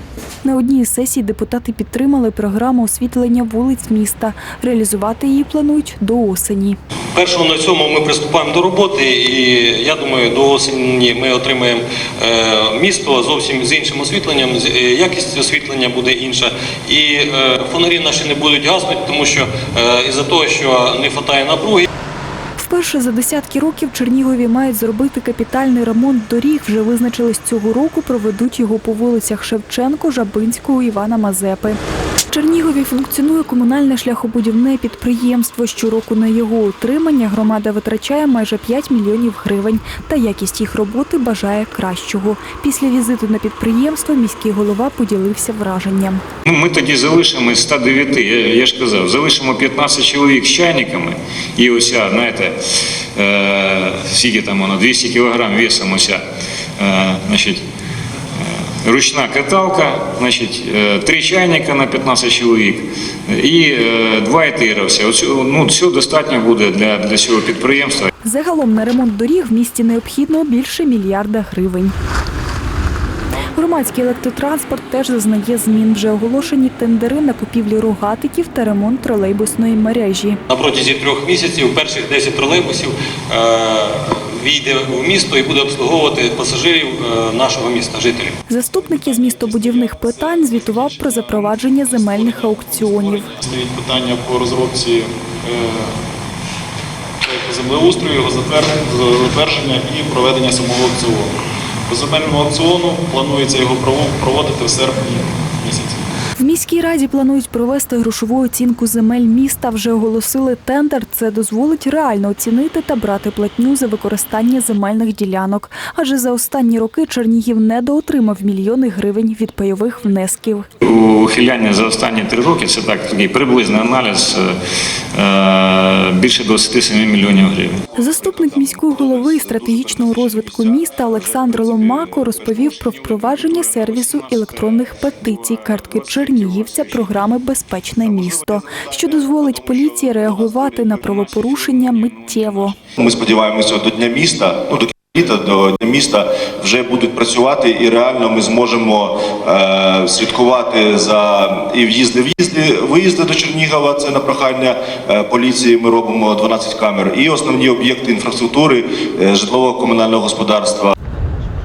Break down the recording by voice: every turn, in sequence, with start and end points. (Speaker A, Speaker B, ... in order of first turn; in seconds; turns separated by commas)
Speaker A: 0.4-6.8, Speaker B: 7.1-21.9, Speaker A: 22.6-31.8, Speaker A: 32.3-46.2, Speaker C: 46.5-52.5, Speaker C: 53.1-56.2, Speaker C: 56.8-57.6, Speaker C: 58.8-68.1, Speaker A: 68.2-71.9, Speaker A: 73.5-80.4, Speaker B: 80.5-88.3, Speaker A: 88.5-93.3, Speaker D: 90.5-91.1, Speaker D: 92.9-95.9, Speaker D: 97.2-101.3, Speaker D: 101.9-106.0, Speaker A: 106.4-120.7, Speaker C: 120.8-124.5, Speaker C: 125.1-127.8, Speaker A: 128.0-142.7, Speaker E: 143.0-160.9